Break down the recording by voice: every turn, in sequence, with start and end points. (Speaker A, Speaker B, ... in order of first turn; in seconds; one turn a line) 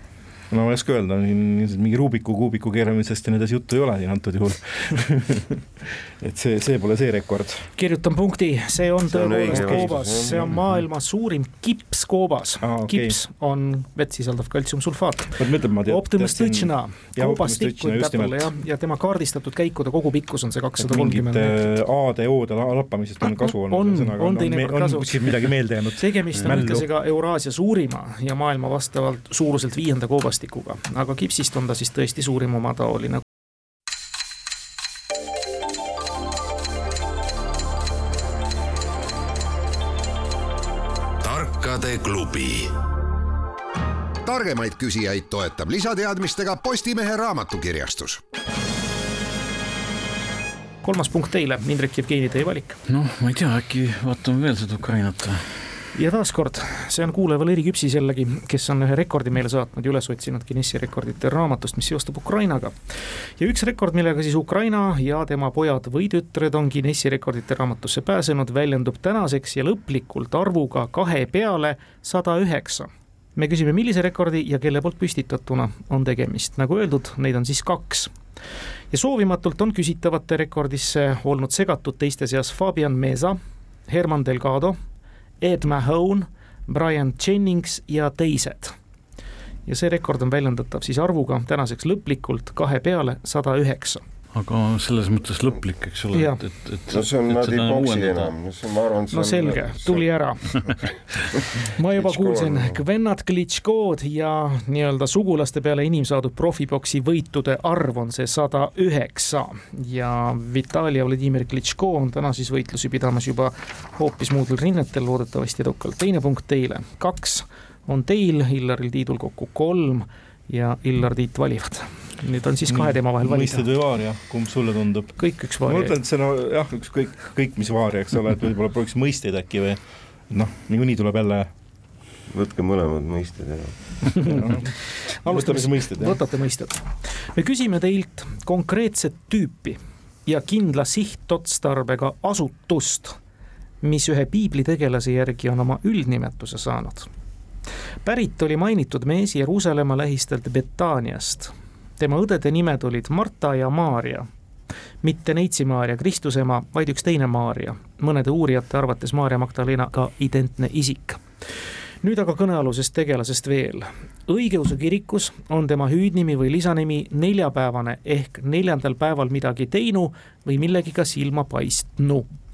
Speaker A: 0.5-7.7
Speaker B: 7.8-21.7
Speaker C: 9.1-10.6
Speaker A: 9.5-10.6
Speaker A: 12.6-13.2
Speaker A: 15.4-18.5
Speaker A: 20.8-26.9
Speaker B: 23.2-33.2
Speaker D: 41.2-42.7
Speaker D: 44.2-48.2
Speaker B: 50.8-52.8
Speaker E: 52.9-55.7
Speaker B: 55.9-62.7
Speaker B: 63.4-78.1
Speaker B: 78.9-84.8
Speaker B: 85.4-88.7
Speaker B: 89.7-94.0
Speaker E: 94.3-98.3
Speaker B: 96.1-96.4
Speaker C: 96.9-102.8
Speaker B: 99.1-100.6
Speaker B: 101.8-123.7
Speaker A: 122.7-131.5
Speaker B: 125.2-126.0
Speaker C: 132.3-134.4
Speaker B: 134.2-143.2
Speaker A: 134.2-136.2
Speaker B: 143.8-147.1
Speaker B: 148.0-154.3
Speaker B: 155.0-161.2
Speaker B: 162.0-172.3